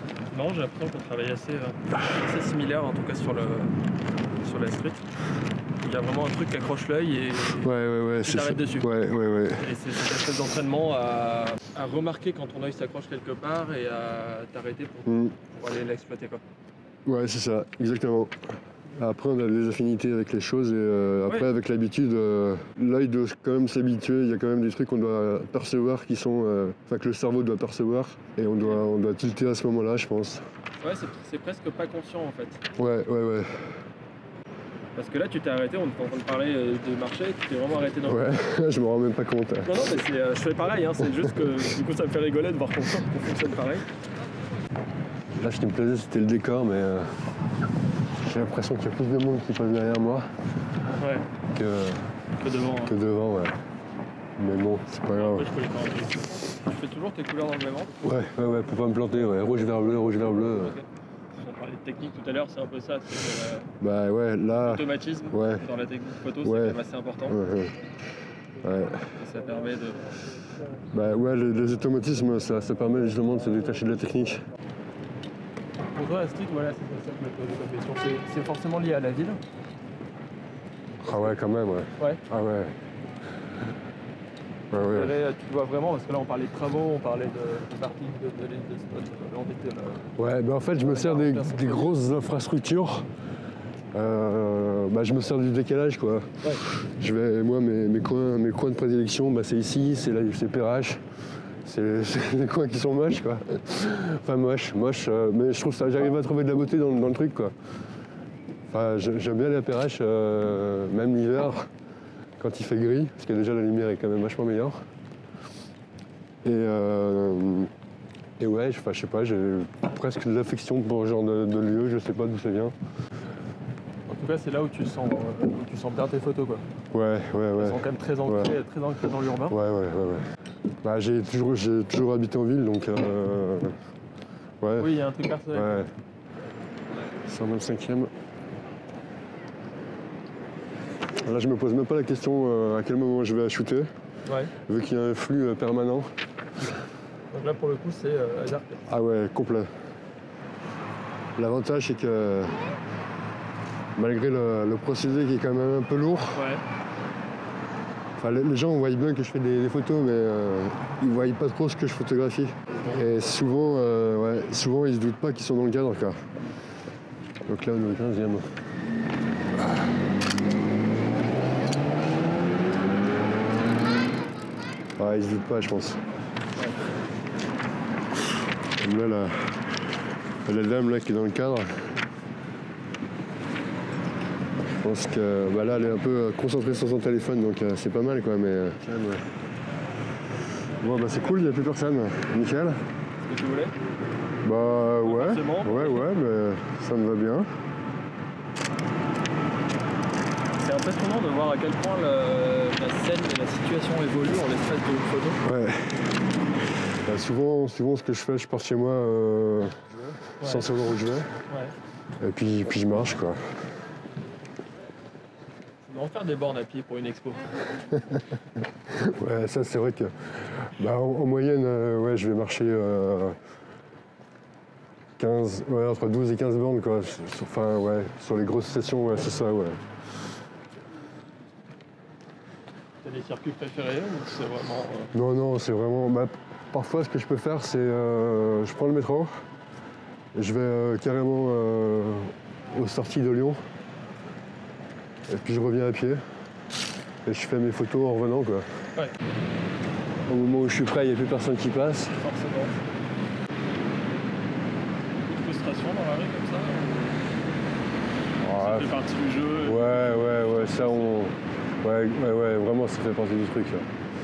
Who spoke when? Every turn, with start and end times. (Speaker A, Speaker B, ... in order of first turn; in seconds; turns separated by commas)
Speaker A: 0.3-3.7, Speaker A: 4.3-5.0, Speaker A: 5.8-7.7, Speaker B: 7.6-9.7, Speaker A: 8.2-8.9, Speaker A: 9.6-16.4, Speaker B: 15.1-15.3, Speaker B: 17.1-18.3, Speaker B: 18.9-30.4, Speaker A: 30.8-32.6, Speaker B: 32.8-33.6, Speaker A: 34.9-38.2, Speaker B: 38.0-39.7, Speaker A: 39.6-43.9, Speaker B: 45.4-47.1, Speaker B: 48.2-50.3, Speaker A: 51.0-51.2, Speaker B: 51.5-52.0, Speaker A: 52.4-52.9, Speaker B: 52.8-53.5, Speaker B: 54.4-55.5, Speaker A: 55.1-58.0, Speaker B: 58.0-60.8, Speaker A: 60.2-63.7, Speaker B: 63.8-65.7, Speaker A: 64.5-67.4, Speaker B: 66.4-67.8, Speaker B: 68.6-69.1, Speaker A: 69.1-70.1, Speaker B: 70.9-74.4, Speaker A: 75.9-79.4, Speaker B: 81.0-82.8, Speaker A: 81.1-81.3, Speaker B: 84.7-85.1, Speaker A: 84.7-90.0, Speaker B: 90.2-93.1, Speaker A: 90.8-91.9, Speaker B: 93.9-101.0, Speaker B: 101.6-107.5, Speaker B: 108.7-111.7, Speaker B: 112.4-114.8, Speaker B: 116.4-117.7, Speaker B: 118.4-122.8, Speaker A: 124.1-126.6, Speaker B: 126.9-128.5, Speaker A: 127.5-129.6, Speaker B: 129.5-130.2, Speaker B: 130.8-133.8, Speaker B: 134.6-134.9, Speaker A: 134.8-135.8, Speaker B: 135.5-135.9, Speaker B: 137.2-138.1, Speaker B: 141.2-143.9, Speaker A: 144.3-144.5, Speaker B: 144.6-146.1, Speaker A: 147.3-148.8, Speaker B: 148.8-149.7, Speaker B: 151.3-152.6, Speaker B: 153.9-156.4, Speaker A: 156.3-156.6, Speaker B: 158.2-166.3, Speaker A: 162.7-163.0, Speaker B: 167.5-168.6, Speaker B: 175.0-176.0, Speaker B: 178.8-179.8, Speaker B: 180.4-182.0, Speaker B: 184.8-189.2, Speaker B: 190.8-192.8, Speaker A: 193.2-193.7, Speaker B: 194.4-197.5, Speaker A: 195.0-196.0, Speaker A: 200.6-205.4, Speaker B: 205.4-206.1, Speaker B: 207.0-211.3, Speaker A: 210.4-210.7, Speaker B: 212.2-213.5, Speaker A: 215.8-217.6, Speaker B: 217.9-218.2, Speaker B: 218.9-223.4, Speaker B: 225.2-229.8, Speaker A: 233.0-235.1, Speaker B: 235.1-239.4, Speaker B: 240.3-243.6, Speaker B: 245.3-246.2, Speaker B: 247.2-248.7, Speaker B: 250.3-252.2, Speaker A: 252.2-252.8, Speaker A: 255.2-257.3, Speaker B: 258.4-259.0, Speaker A: 258.5-261.1, Speaker B: 259.6-263.9